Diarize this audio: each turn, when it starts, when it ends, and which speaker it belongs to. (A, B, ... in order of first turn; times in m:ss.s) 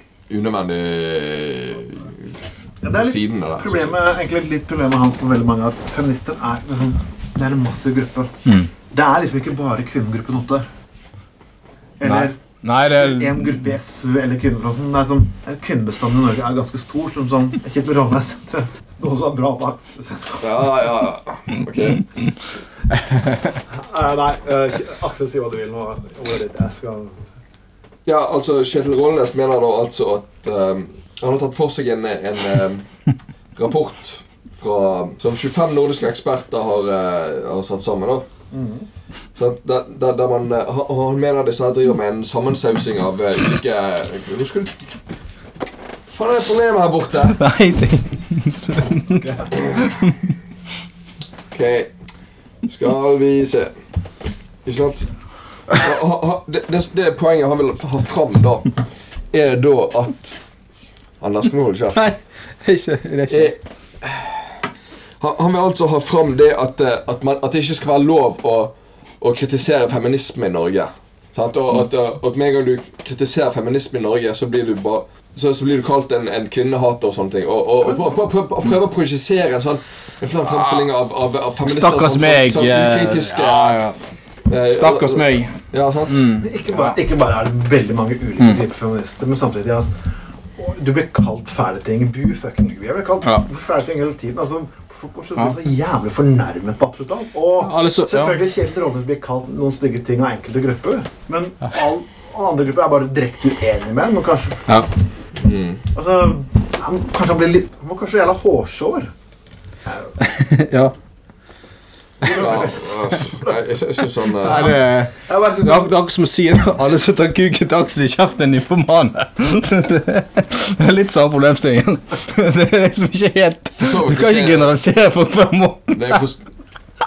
0:00.3-0:02.4 A
0:02.8-0:08.3 B
0:02.9-0:04.0 A
0:08.9-0:10.7 B
0:12.0-0:20.7 B
0:12.0-0:13.5 C
0:20.4-0:22.0 A
0:23.1-0:23.4 C
0:23.7-0:27.2 B
0:28.0-0:32.8 A
0:33.5-0:38.3 A
0:38.5-0:38.9 B
0:39.4-0:44.7 A
0:46.1-0:47.4 A
0:47.3-0:50.2 C
0:49.2-0:49.5 B
0:51.5-0:51.9 A
0:52.6-0:53.7 A
0:54.6-0:55.1 A
0:55.7-0:58.8 A
0:59.3-1:00.4 A
1:01.2-1:02.1 A
1:02.0-1:03.5 C
1:03.3-1:04.5 A
1:05.2-1:23.8 A
1:17.8-1:18.2 B
1:21.6-1:24.0 C
1:24.5-1:26.3 A
1:24.7-1:25.6 C
1:26.1-1:26.9 C
1:26.4-1:29.9 B
1:30.6-1:44.8 B
1:37.6-1:38.4 C
1:45.4-1:45.8 A
1:45.9-1:49.1 B
1:50.2-1:50.9 C
1:52.2-1:53.1 B
1:52.2-1:54.8 A
1:54.3-2:06.2 C
1:55.2-1:56.0 B
2:03.8-2:04.8 A
2:05.9-2:06.4 A